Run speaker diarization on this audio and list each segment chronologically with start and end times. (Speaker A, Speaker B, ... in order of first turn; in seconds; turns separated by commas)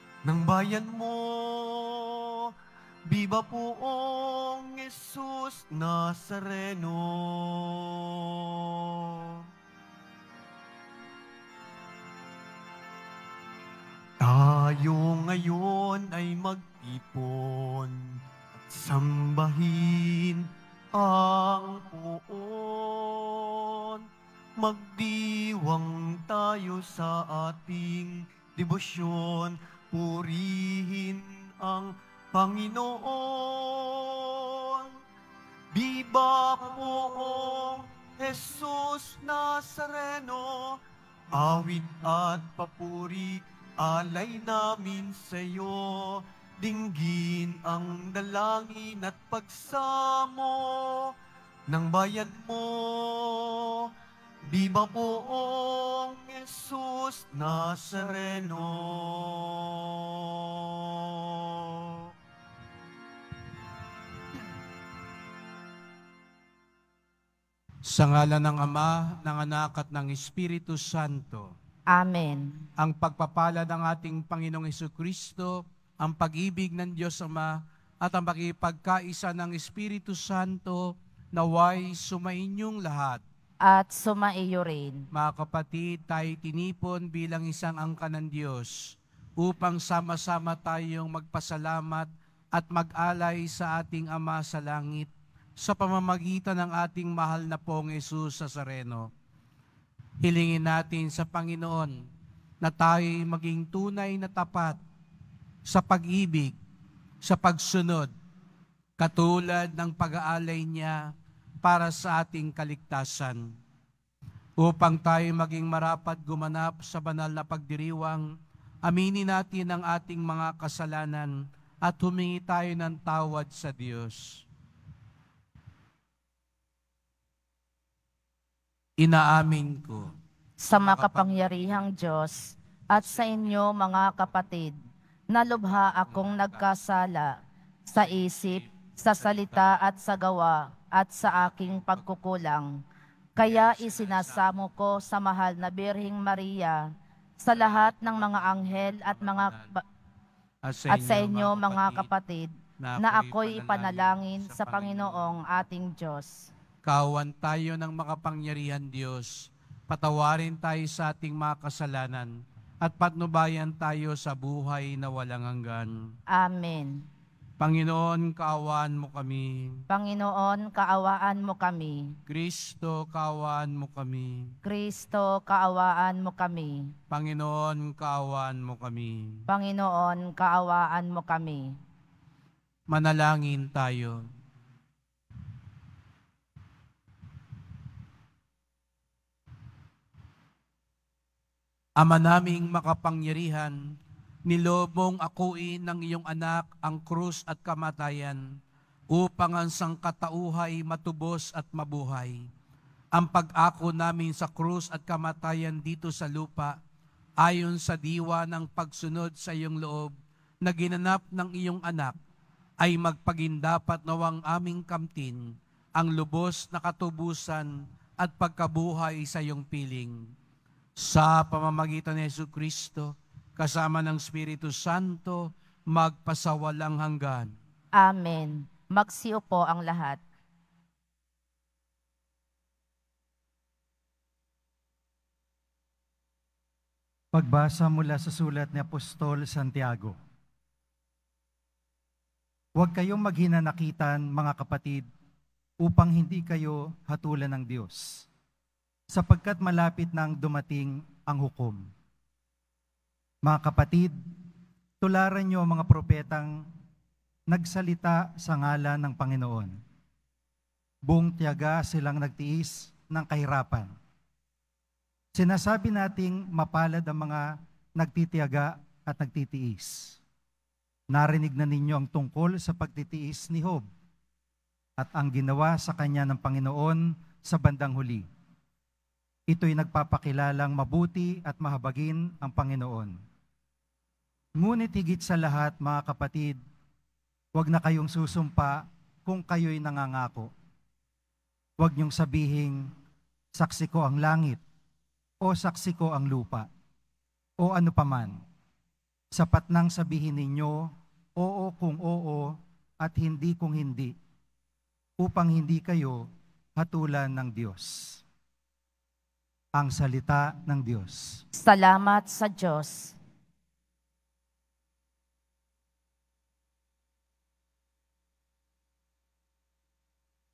Speaker A: 0.2-2.5, Speaker A: 3.1-9.4, Speaker A: 14.2-24.1, Speaker A: 24.6-34.9, Speaker A: 35.7-40.8, Speaker A: 41.3-51.1, Speaker A: 51.7-53.9, Speaker A: 54.5-62.0, Speaker B: 67.9-71.5, Speaker C: 71.9-72.6, Speaker B: 72.8-83.2, Speaker C: 83.7-85.0, Speaker B: 85.1-99.1, Speaker B: 100.2-102.0, Speaker B: 102.6-104.8, Speaker B: 105.7-106.5, Speaker B: 107.2-108.1, Speaker B: 109.0-111.0, Speaker B: 111.6-113.5, Speaker B: 114.6-118.3, Speaker B: 118.9-121.3, Speaker B: 121.8-124.4, Speaker B: 129.0-130.1, Speaker C: 130.6-134.8, Speaker B: 130.7-131.3, Speaker C: 135.3-137.3, Speaker C: 137.9-142.7, Speaker C: 143.4-146.8, Speaker B: 143.4-144.5, Speaker C: 147.4-149.8, Speaker B: 150.7-152.1, Speaker C: 150.9-156.5, Speaker B: 152.8-155.3, Speaker B: 156.8-162.3, Speaker B: 162.8-165.9, Speaker C: 166.3-167.1, Speaker B: 167.6-169.8, Speaker C: 169.9-172.2, Speaker B: 172.3-174.5, Speaker C: 174.7-176.9, Speaker B: 177.1-179.4, Speaker C: 179.5-181.7, Speaker B: 182.9-184.2, Speaker B: 192.0-193.8, Speaker B: 194.5-198.4, Speaker B: 199.1-202.4, Speaker B: 203.2-206.8, Speaker B: 207.4-212.2, Speaker B: 212.8-215.4, Speaker B: 216.0-220.2, Speaker B: 221.0-227.5, Speaker C: 228.0-230.2, Speaker D: 237.3-240.2, Speaker D: 242.8-245.1, Speaker D: 245.8-248.2, Speaker D: 249.1-251.9, Speaker D: 253.5-254.2, Speaker D: 255.0-256.6, Speaker D: 257.5-259.8, Speaker D: 261.1-263.9, Speaker D: 265.4-270.2, Speaker D: 271.1-273.9, Speaker D: 275.0-278.3, Speaker D: 279.5-283.2, Speaker D: 284.6-286.6, Speaker D: 287.6-290.5, Speaker D: 291.8-292.9, Speaker D: 293.6-294.6, Speaker D: 295.4-296.7, Speaker D: 297.6-298.4, Speaker D: 299.3-304.1, Speaker D: 305.2-308.2, Speaker D: 309.8-311.4, Speaker C: 311.6-313.1